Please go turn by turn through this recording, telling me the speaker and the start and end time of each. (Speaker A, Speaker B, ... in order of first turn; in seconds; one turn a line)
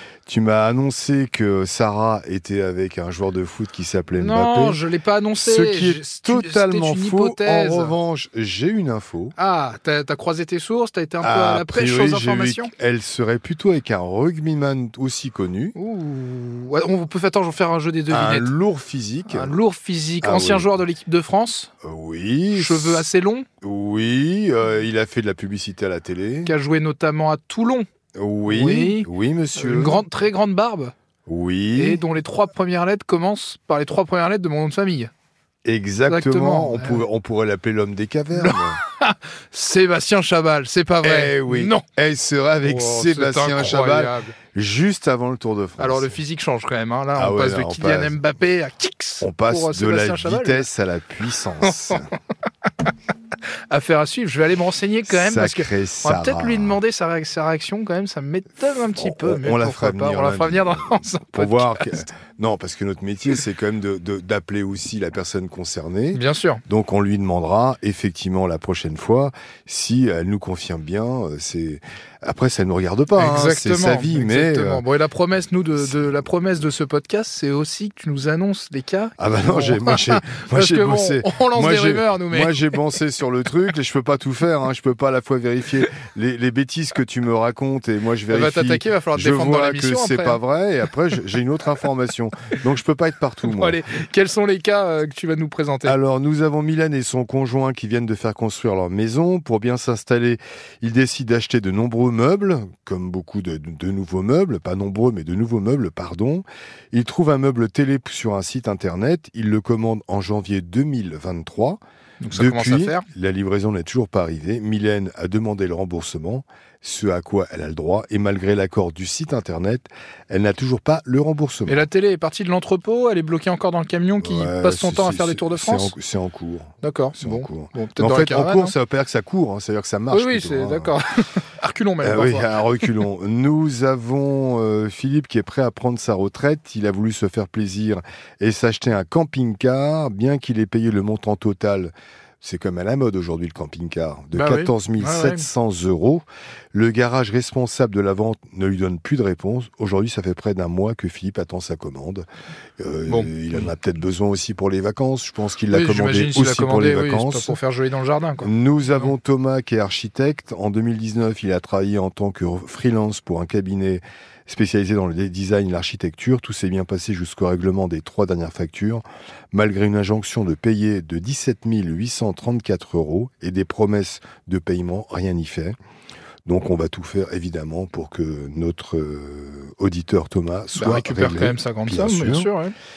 Speaker A: 0.3-4.8
Speaker B: 4.2-8.0
Speaker A: 5.4-9.3
Speaker B: 9.4-12.7
Speaker A: 11.2-15.8
Speaker B: 15.8-18.5
Speaker A: 18.1-19.6
Speaker B: 19.3-21.7
Speaker A: 20.2-20.7
Speaker A: 21.8-23.1
Speaker B: 22.5-23.5
Speaker A: 23.6-26.5
Speaker B: 26.4-27.9
Speaker A: 28.2-30.0
Speaker B: 28.5-30.9
Speaker A: 31.3-32.0
Speaker B: 31.8-35.1
Speaker A: 35.6-38.8
Speaker B: 36.1-37.0
Speaker B: 38.4-41.8
Speaker A: 41.0-46.2
Speaker B: 42.6-44.4
Speaker B: 45.8-50.7
Speaker A: 47.1-48.2
Speaker A: 49.2-52.1
Speaker B: 51.6-52.0
Speaker B: 53.7-62.1
Speaker A: 55.1-56.8
Speaker A: 59.0-74.8
Speaker B: 66.1-66.6
Speaker B: 73.2-82.8
Speaker A: 75.8-76.1
Speaker A: 79.2-93.8
Speaker B: 88.3-90.4
Speaker B: 93.5-96.0
Speaker A: 95.8-111.8
Speaker B: 112.2-113.0
Speaker A: 112.3-121.8
Speaker B: 121.7-125.9
Speaker A: 124.2-131.0
Speaker B: 126.8-128.7
Speaker B: 130.1-132.9
Speaker A: 132.0-152.3
Speaker B: 144.3-145.5
Speaker A: 152.8-157.6
Speaker B: 153.1-153.7
Speaker B: 155.7-159.1
Speaker A: 158.4-175.8
Speaker A: 176.5-182.5
Speaker B: 180.8-182.7